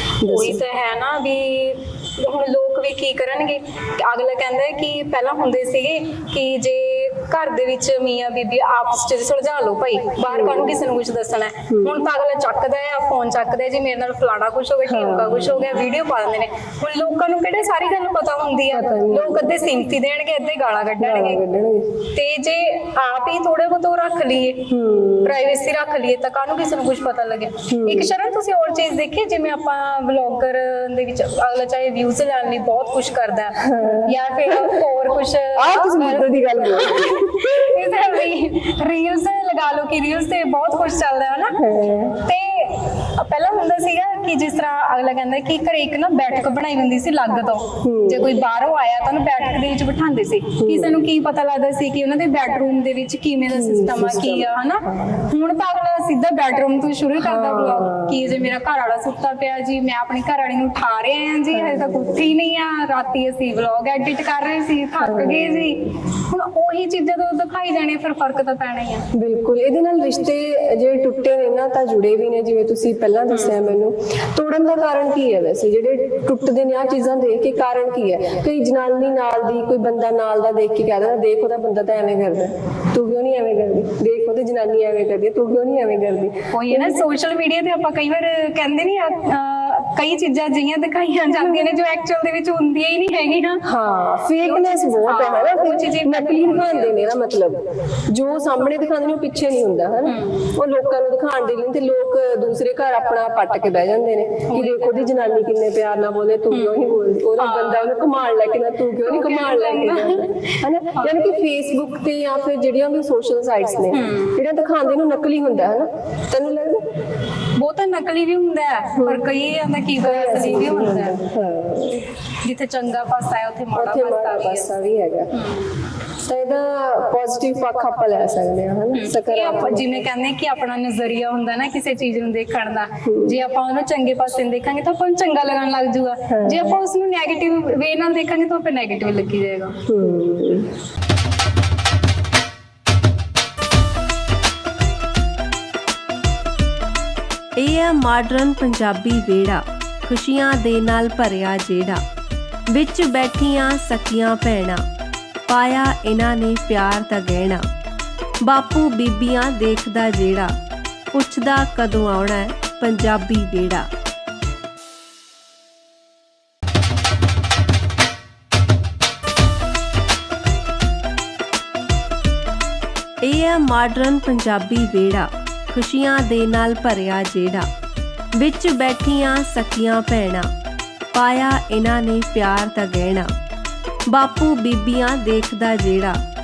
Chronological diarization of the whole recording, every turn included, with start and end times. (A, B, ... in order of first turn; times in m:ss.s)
0:00.2-0:00.6 A
0:00.2-0:21.4 B
0:10.3-0:10.8 A
0:11.7-0:12.0 A
0:14.8-0:15.6 A
0:18.7-0:19.5 A
0:21.0-0:21.8 A
0:22.1-0:24.7 B
0:24.7-0:25.4 A
0:25.2-0:41.6 B
0:27.7-0:28.1 A
0:33.6-0:34.8 A
0:35.6-0:37.7 A
0:41.6-0:42.2 A
0:42.2-1:09.0 B
0:47.8-0:48.3 A
0:50.6-0:51.0 A
0:53.5-0:55.2 A
0:57.2-0:58.4 A
1:01.5-1:02.3 A
1:05.0-1:05.8 A
1:09.1-1:27.0 A
1:13.3-1:13.7 B
1:26.5-1:33.6 B
1:33.6-1:37.6 A
1:34.4-1:37.0 B
1:38.1-1:56.8 A
1:40.0-1:40.5 B
1:44.5-1:45.0 B
1:46.5-1:47.9 B
1:49.0-1:51.1 B
1:53.9-1:54.4 B
1:57.6-2:01.2 B
1:59.0-1:59.3 A
1:59.9-2:02.0 A
2:02.4-2:04.7 B
2:03.7-2:05.3 A
2:05.3-2:05.7 B
2:06.3-2:10.0 A
2:08.9-2:19.8 B
2:13.0-2:13.4 A
2:16.3-2:16.8 A
2:19.9-2:20.7 A
2:27.6-2:32.0 C
2:32.7-2:34.8 C
2:35.5-2:37.6 C
2:38.4-2:40.5 C
2:41.1-2:43.9 C
2:53.2-2:57.7 C
2:58.4-3:00.5 C
3:01.1-3:03.3 C
3:04.1-3:06.2 C